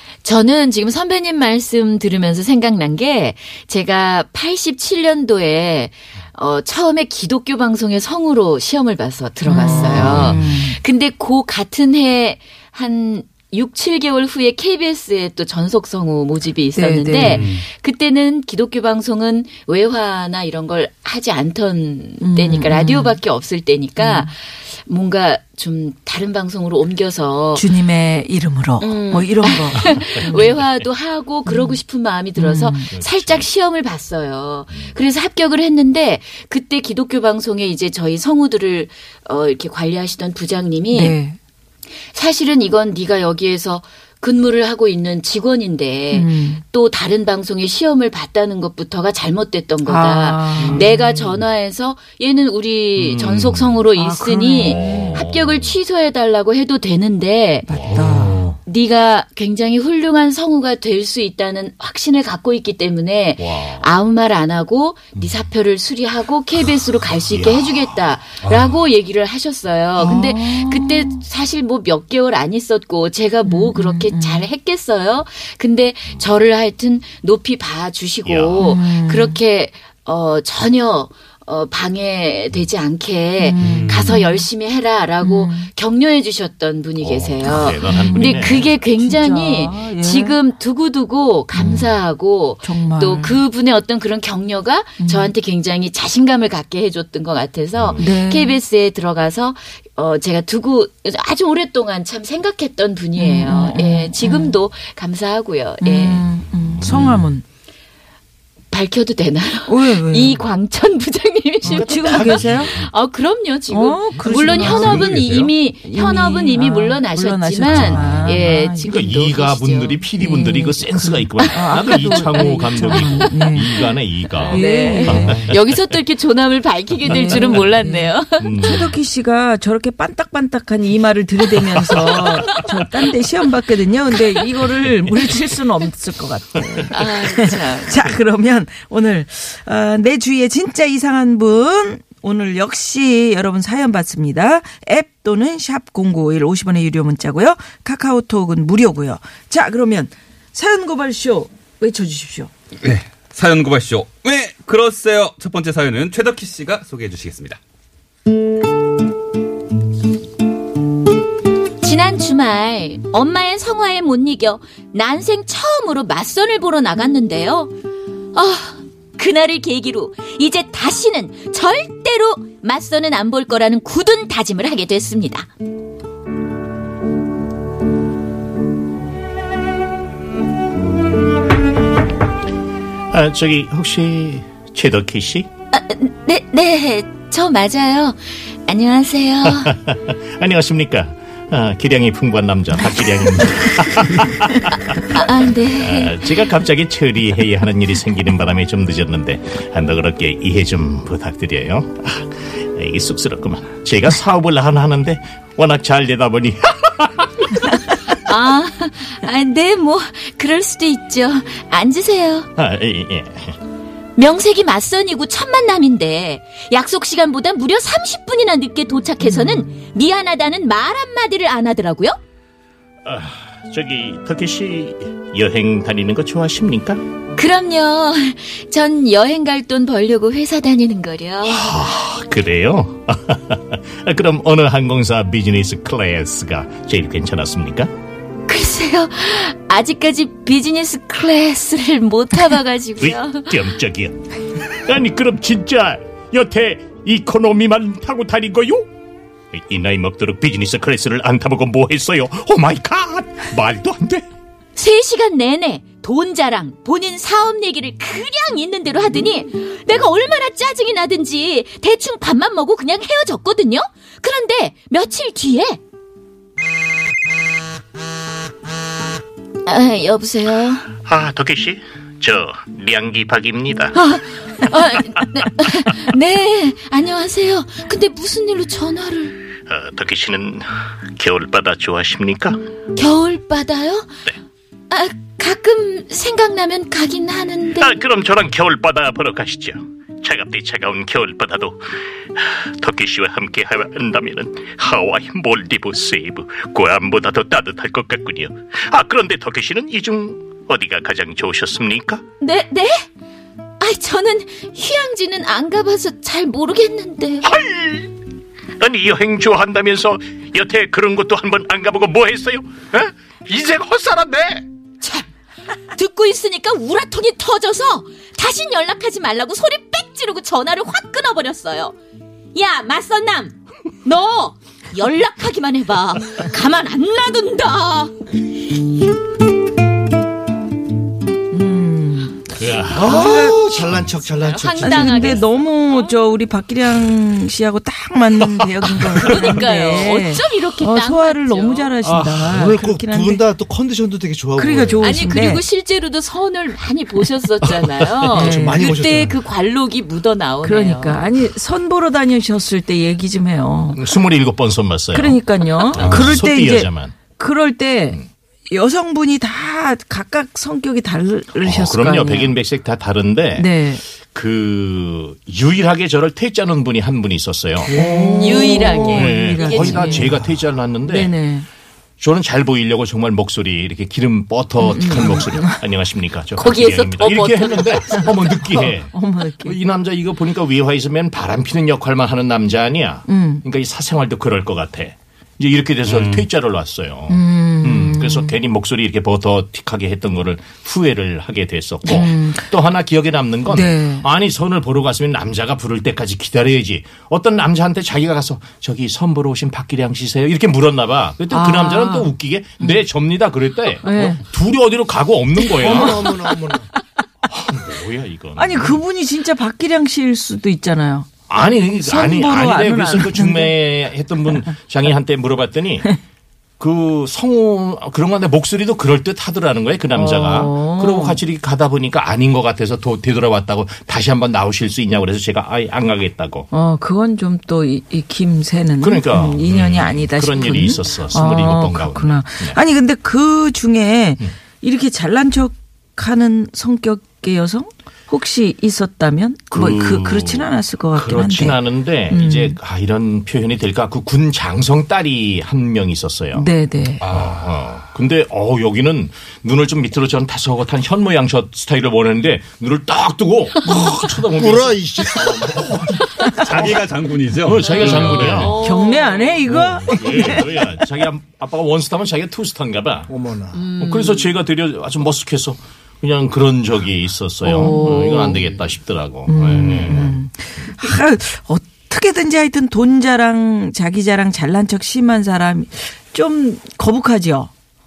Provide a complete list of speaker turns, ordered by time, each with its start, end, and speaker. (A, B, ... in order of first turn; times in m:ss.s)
0:00.2-0:27.6 A
0:09.4-0:10.8 B
0:09.6-0:10.4 C
0:16.8-0:17.4 B
0:17.2-0:17.6 C
0:22.2-0:23.2 B
0:24.0-0:24.3 B
0:27.6-0:30.5 B
0:28.8-0:41.2 A
0:31.4-0:31.8 B
0:32.4-0:32.9 B
0:32.9-0:33.5 D
0:40.9-0:41.4 B
0:42.1-0:57.7 A
0:46.1-0:46.6 B
0:49.8-0:50.9 B
0:50.6-0:51.3 D
0:53.0-0:53.8 D
0:53.9-0:55.2 B
0:54.6-0:55.7 D
0:57.6-0:58.5 B
0:57.7-0:58.2 D
0:58.0-0:58.6 C
0:58.6-1:46.2 A
1:03.4-1:03.9 D
1:07.2-1:08.0 D
1:08.4-1:08.8 C
1:10.0-1:11.2 B
1:13.4-1:14.5 B
1:18.2-1:18.7 D
1:18.6-1:19.4 B
1:23.4-1:24.4 B
1:23.6-1:24.2 C
1:25.2-1:25.7 B
1:27.0-1:28.7 D
1:27.8-1:30.3 B
1:31.6-1:31.8 D
1:32.6-1:33.4 B
1:35.0-1:35.3 B
1:37.8-1:38.0 D
1:38.0-1:38.6 B
1:43.2-1:44.6 B
1:45.8-1:47.4 B
1:46.8-1:47.3 D
1:48.7-2:00.0 A
1:49.7-1:50.4 B
1:51.6-1:52.8 B
1:51.6-1:52.8 D
1:53.7-1:55.1 B
1:54.3-1:55.5 C
1:55.8-1:58.9 B
1:57.7-1:58.1 D
1:58.9-2:05.6 D
2:00.2-2:03.7 B
2:01.4-2:08.8 A
2:04.5-2:05.4 B
2:07.1-2:07.7 D
2:07.1-2:32.5 B
2:08.4-2:08.9 D
2:11.8-2:12.6 D
2:16.9-2:18.1 A
2:32.8-2:37.6 C
2:41.8-2:47.7 A
2:48.3-2:55.5 A
3:03.1-3:05.5 D
3:05.7-3:09.7 A
3:09.4-3:28.0 D
3:15.1-3:16.5 A
3:28.2-3:32.5 A
3:32.6-3:33.6 D
3:34.2-3:42.2 A
3:39.3-3:39.6 B
3:43.0-3:47.0 D
3:47.4-3:51.8 A
3:51.4-3:57.9 D
3:58.5-4:03.7 A
4:03.0-4:04.2 D
4:04.7-4:08.9 D
4:09.5-4:14.2 D
4:14.8-4:25.8 A
4:29.6-4:30.9 A
4:31.0-4:34.0 D
4:33.9-4:39.4 A
4:39.6-4:42.6 D
4:43.0-4:44.1 A
4:44.9-4:47.9 A
4:47.8-4:51.8 D
4:52.3-5:02.2 D
5:02.4-5:03.0 A
5:03.8-5:07.5 A
5:07.4-5:08.1 D
5:08.8-5:14.6 D
5:15.9-5:21.9 A
5:22.5-5:28.1 A
5:31.5-5:32.4 B
5:32.6-5:33.3 D
5:32.9-5:35.4 E
5:33.0-5:36.1 A
5:33.0-5:33.5 B
5:34.8-5:43.4 B
5:39.2-5:41.9 A
5:42.0-5:45.4 E
5:44.6-5:45.6 B
5:45.0-5:51.2 A
5:47.6-5:48.3 D
5:48.3-5:48.9 B
5:48.4-5:49.4 E
5:50.6-5:54.0 B
5:53.9-5:57.2 D
5:55.1-6:02.6 B
5:56.0-5:56.4 C
6:01.6-6:03.7 D
6:03.6-6:04.0 B
6:04.3-6:11.3 D
6:07.9-6:10.4 B
6:08.4-6:10.3 A
6:11.1-6:11.6 B
6:12.2-6:46.3 D
6:14.8-6:15.8 B
6:16.6-6:18.3 A
6:18.7-6:19.8 B
6:23.2-6:23.6 B
6:26.1-6:26.5 C
6:27.3-6:28.6 B
6:32.0-6:32.7 B
6:33.7-6:34.2 B
6:41.5-6:43.0 B
6:44.0-6:44.4 B
6:45.6-6:46.1 B
6:45.7-6:46.9 E
6:47.5-6:49.0 D
6:48.6-6:51.3 B
6:51.5-6:56.2 D
6:52.0-6:53.8 B
6:56.8-7:06.7 D
7:00.1-7:01.4 B
7:06.7-7:22.8 B
7:09.0-7:12.8 D
7:19.7-7:26.7 D
7:26.5-7:27.2 B
7:27.2-7:27.8 C
7:27.3-7:38.8 D
7:33.9-7:36.2 E
7:36.6-7:38.8 C
7:37.8-7:39.6 A
7:38.8-7:40.7 B
7:39.7-7:43.3 D
7:43.3-7:43.8 E
7:43.7-7:44.5 A
7:44.0-7:50.4 D
7:47.6-7:48.6 B
7:49.5-7:57.7 B